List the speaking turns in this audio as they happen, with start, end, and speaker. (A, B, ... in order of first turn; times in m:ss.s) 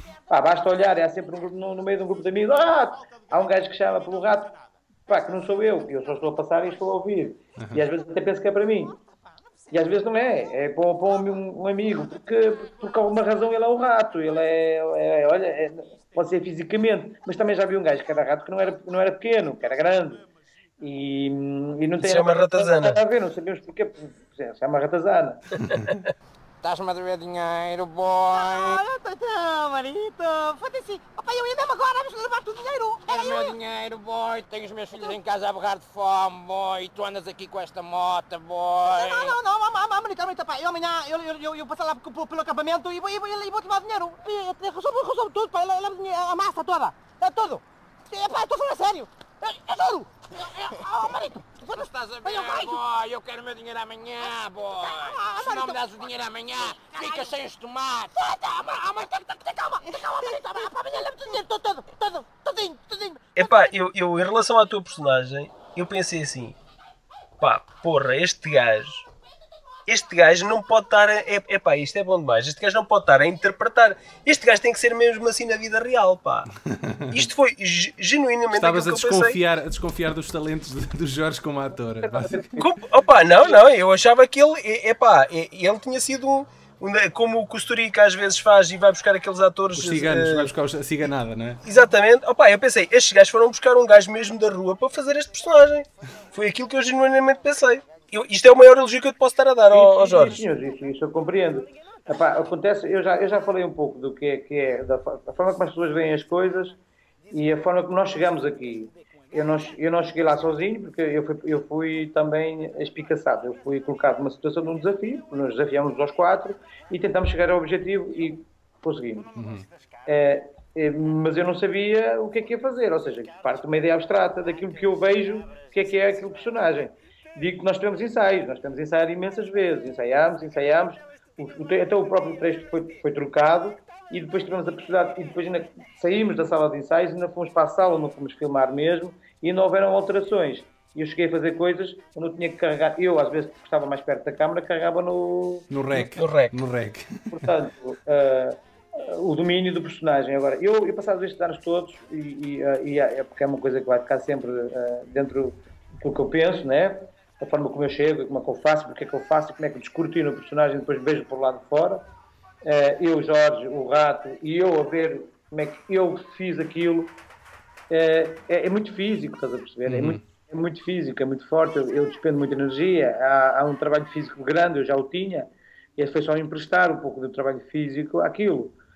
0:00.3-0:04.6 A
0:05.1-0:09.0 A
0:07.6-0:07.8 B
0:09.7-0:20.2 A
0:20.8-0:25.4 A
0:22.0-0:23.0 C
0:26.6-0:28.7 D
0:28.2-0:33.6 E
0:33.1-0:39.3 D
0:34.9-0:35.2 E
0:38.8-0:52.9 E
0:51.8-0:58.0 D
0:54.2-0:57.4 E
0:58.2-1:03.6 E
1:03.4-1:06.6 C
1:07.4-1:09.0 C
1:09.9-1:16.5 C
1:16.7-1:17.2 B
1:17.1-1:19.4 C
1:18.5-1:22.6 B
1:22.0-1:22.6 A
1:22.6-1:30.5 C
1:29.7-1:31.6 B
1:31.6-1:40.4 C
1:39.7-1:46.8 A
1:47.3-1:59.3 A
1:59.3-1:59.7 B
2:00.0-2:25.7 A
2:25.7-2:27.5 B
2:25.9-2:26.5 C
2:27.3-2:42.0 A
2:42.6-2:47.2 A
2:47.9-2:58.7 A
2:49.8-2:50.2 B